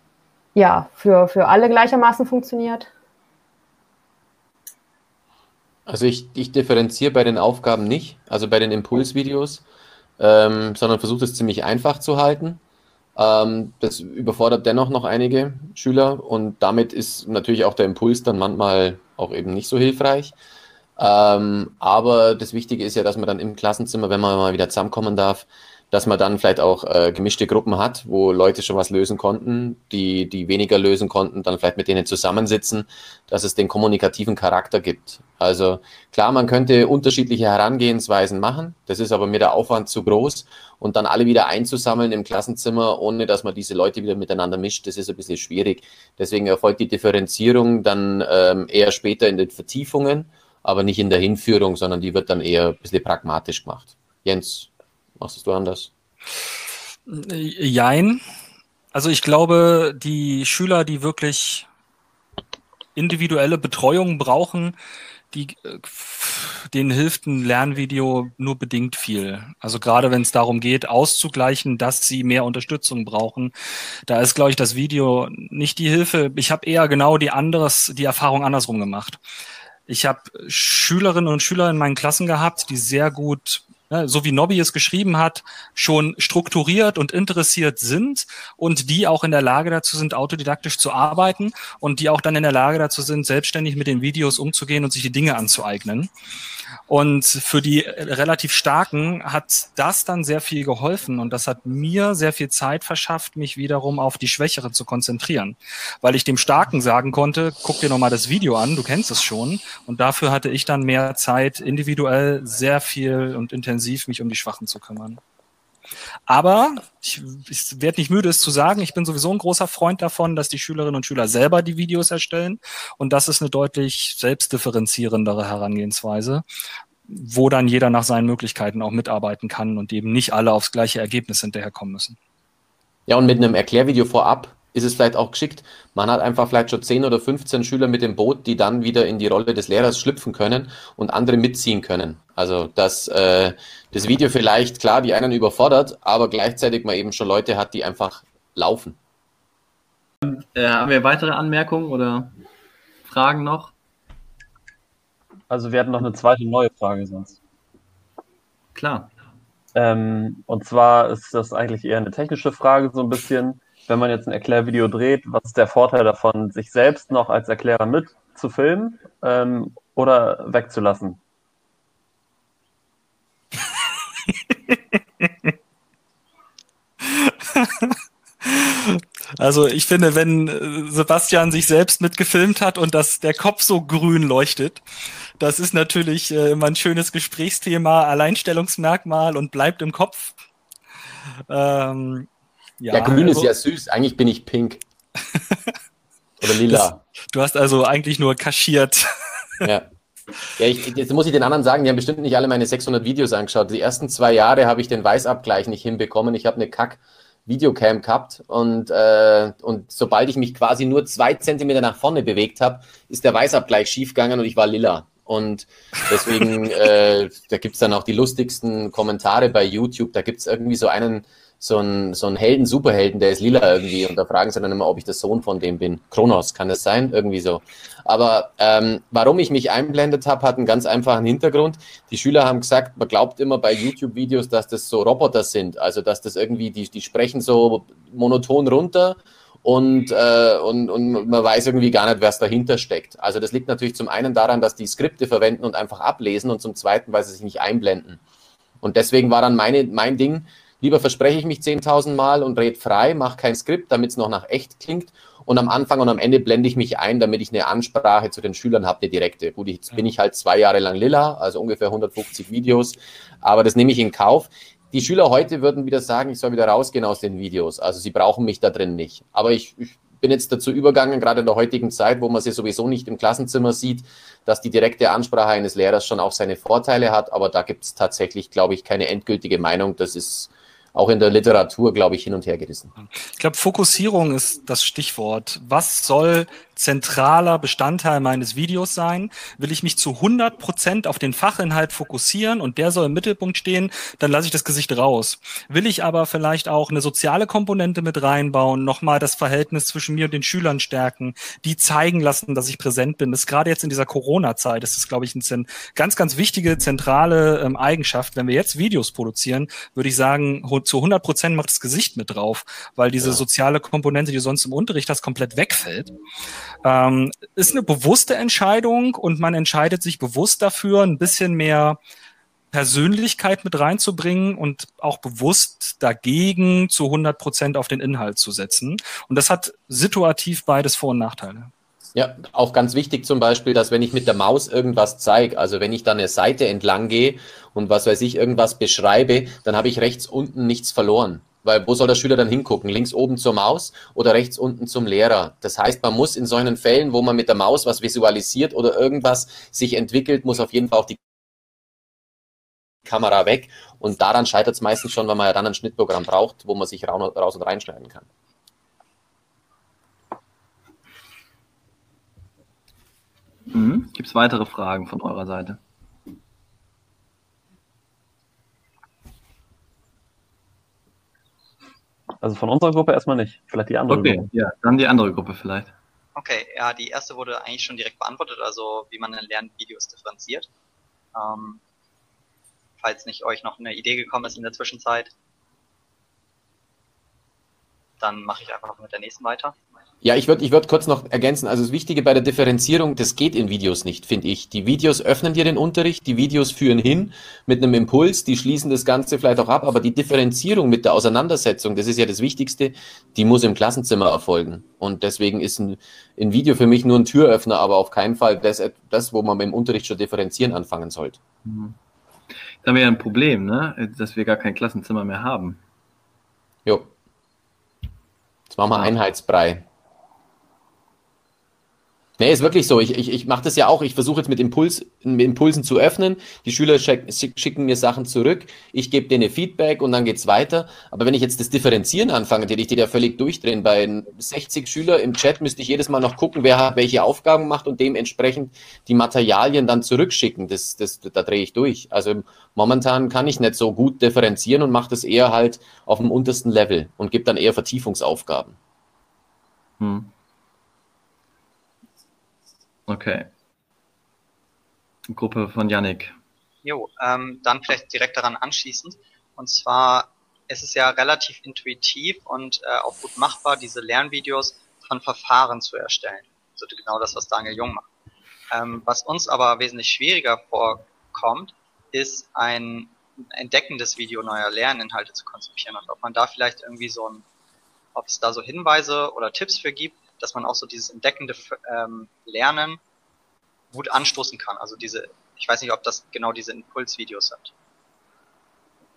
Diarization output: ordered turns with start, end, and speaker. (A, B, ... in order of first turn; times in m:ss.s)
0:00.5-0:02.9 A
0:05.9-0:09.6 B
0:10.2-0:12.6 B
0:13.2-0:20.3 B
0:21.0-0:55.9 B
0:57.1-0:58.2 C
0:58.9-1:01.7 C
1:03.0-1:04.7 C
1:05.3-1:13.5 C
1:14.1-1:19.2 C
1:19.9-1:36.1 C
1:36.9-1:55.2 C
1:56.3-2:06.4 C
2:07.1-2:12.2 C
2:13.1-2:29.0 B
2:30.2-2:32.4 D
2:33.0-2:33.7 D
2:35.5-2:37.4 E
2:38.7-2:39.1 D
2:39.7-2:51.2 E
2:57.0-3:04.8 C
3:05.4-3:10.3 C
3:11.5-3:12.3 C
3:12.8-3:13.5 C
3:12.9-3:14.8 B
3:16.4-3:17.0 B
3:16.6-3:19.1 C
3:19.6-3:19.9 B
3:20.6-4:08.2 B
4:08.8-4:42.9 B
4:43.4-5:16.1 C
5:16.8-5:22.0 C
5:22.7-5:31.7 C
5:32.1-5:51.2 B
5:53.0-5:58.3 B
6:03.7-6:05.8 D
6:12.4-6:14.4 E
6:14.1-6:15.9 D
6:16.4-6:20.7 F
6:21.3-6:21.8 F
6:23.0-6:25.3 F
6:28.2-6:29.8 F
6:30.2-6:51.4 B
6:51.6-6:52.0 D
6:52.8-6:55.8 D
6:56.8-6:57.1 B
6:58.7-6:59.8 B
7:02.4-7:28.8 B
7:30.0-7:30.3 D
7:33.1-7:33.5 D
7:35.3-7:36.4 D
7:36.8-7:48.0 F
7:48.7-7:57.4 F
7:58.1-8:03.0 F
8:03.9-8:07.7 F